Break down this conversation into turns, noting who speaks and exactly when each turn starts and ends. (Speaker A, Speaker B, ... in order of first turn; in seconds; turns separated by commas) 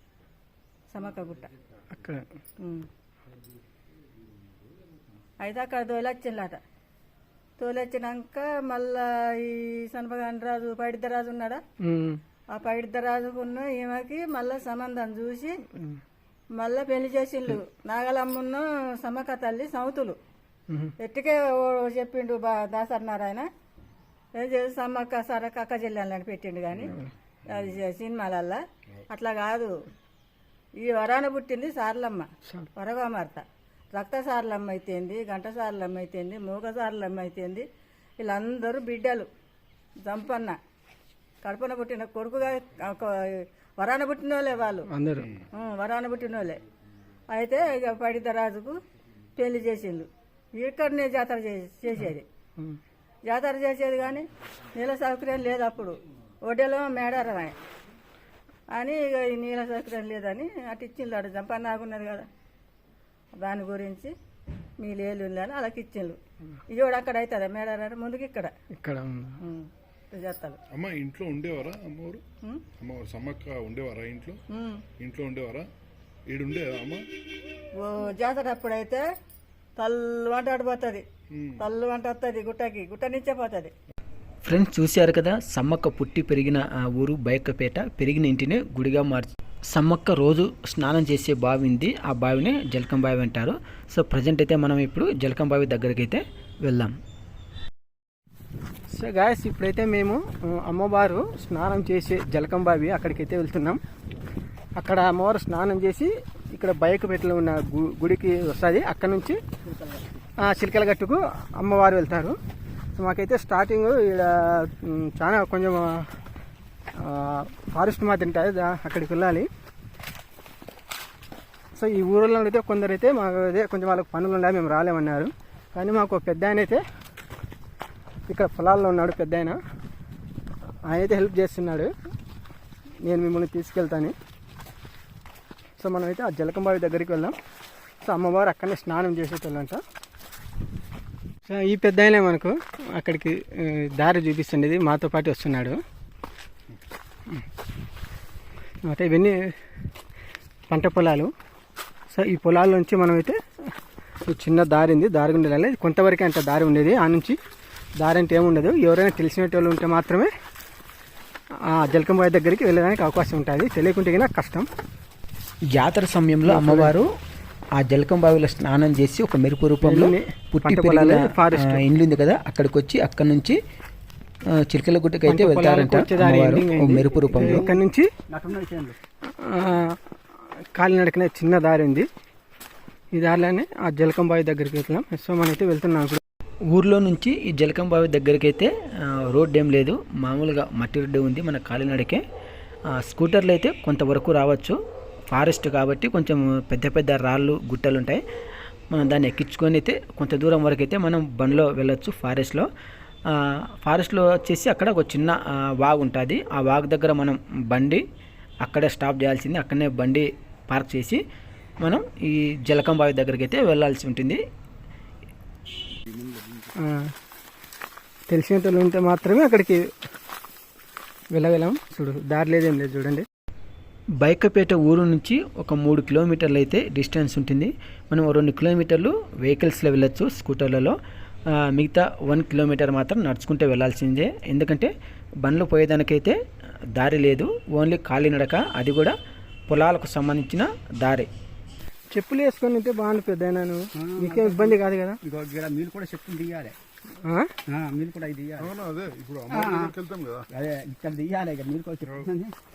Speaker A: 0.9-1.5, Speaker B: 1.9-2.2, Speaker A: 2.6-2.9, Speaker A: 5.4-6.6, Speaker A: 7.6-11.6, Speaker B: 11.8-12.2, Speaker A: 12.5-15.6, Speaker A: 16.6-20.2, Speaker B: 20.7-20.9, Speaker A: 21.0-23.4, Speaker A: 24.4-27.0, Speaker A: 27.5-29.7, Speaker A: 30.8-37.6, Speaker A: 38.2-39.3, Speaker A: 40.0-40.6, Speaker A: 41.4-44.9, Speaker B: 44.9-45.3, Speaker A: 45.5-46.6, Speaker A: 47.3-48.7, Speaker A: 49.4-52.2, Speaker B: 52.0-52.8, Speaker A: 53.3-54.2, Speaker A: 54.8-56.0, Speaker A: 56.5-57.5, Speaker A: 58.7-62.3, Speaker A: 63.4-64.1, Speaker A: 64.8-66.2, Speaker A: 66.7-68.5, Speaker B: 68.8-69.4, Speaker A: 69.4-70.6, Speaker C: 70.7-72.2, Speaker C: 72.8-74.4, Speaker A: 74.5-74.8, Speaker C: 75.0-75.7, Speaker C: 76.3-77.0, Speaker A: 77.8-79.0, Speaker A: 79.8-81.0, Speaker C: 81.3-81.6, Speaker A: 81.6-83.7, Speaker D: 84.4-96.9, Speaker B: 98.9-103.8, Speaker B: 104.8-109.4, Speaker B: 110.4-112.3, Speaker B: 112.9-116.0, Speaker B: 117.0-119.5, Speaker B: 121.8-126.8, Speaker B: 128.3-129.6, Speaker B: 130.9-131.9, Speaker B: 133.0-134.1, Speaker B: 135.8-137.3, Speaker B: 138.0-139.8, Speaker B: 141.4-145.8, Speaker B: 148.9-149.5, Speaker B: 150.7-151.3, Speaker B: 152.1-153.3, Speaker B: 154.2-157.4, Speaker B: 158.0-160.3, Speaker B: 161.7-164.7, Speaker D: 165.7-167.1, Speaker B: 166.4-167.0, Speaker D: 167.8-173.6, Speaker B: 169.8-171.8, Speaker D: 174.6-177.6, Speaker B: 175.2-178.1, Speaker E: 177.3-179.0, Speaker B: 179.4-180.0, Speaker B: 180.7-182.1, Speaker B: 183.1-186.2, Speaker D: 186.7-192.2, Speaker D: 192.9-194.8, Speaker D: 195.3-198.2, Speaker D: 198.9-202.7, Speaker D: 203.3-208.0, Speaker D: 208.6-211.2, Speaker D: 211.8-214.4, Speaker E: 216.1-216.7, Speaker B: 216.8-217.1, Speaker B: 218.3-219.8, Speaker B: 221.3-223.2, Speaker D: 224.2-230.9, Speaker D: 231.5-234.9, Speaker D: 235.4-236.3, Speaker D: 236.9-239.1, Speaker D: 239.7-241.3, Speaker B: 242.1-245.2, Speaker E: 243.9-246.7, Speaker E: 247.7-248.7, Speaker C: 248.6-250.5, Speaker E: 249.5-249.9, Speaker E: 250.5-252.5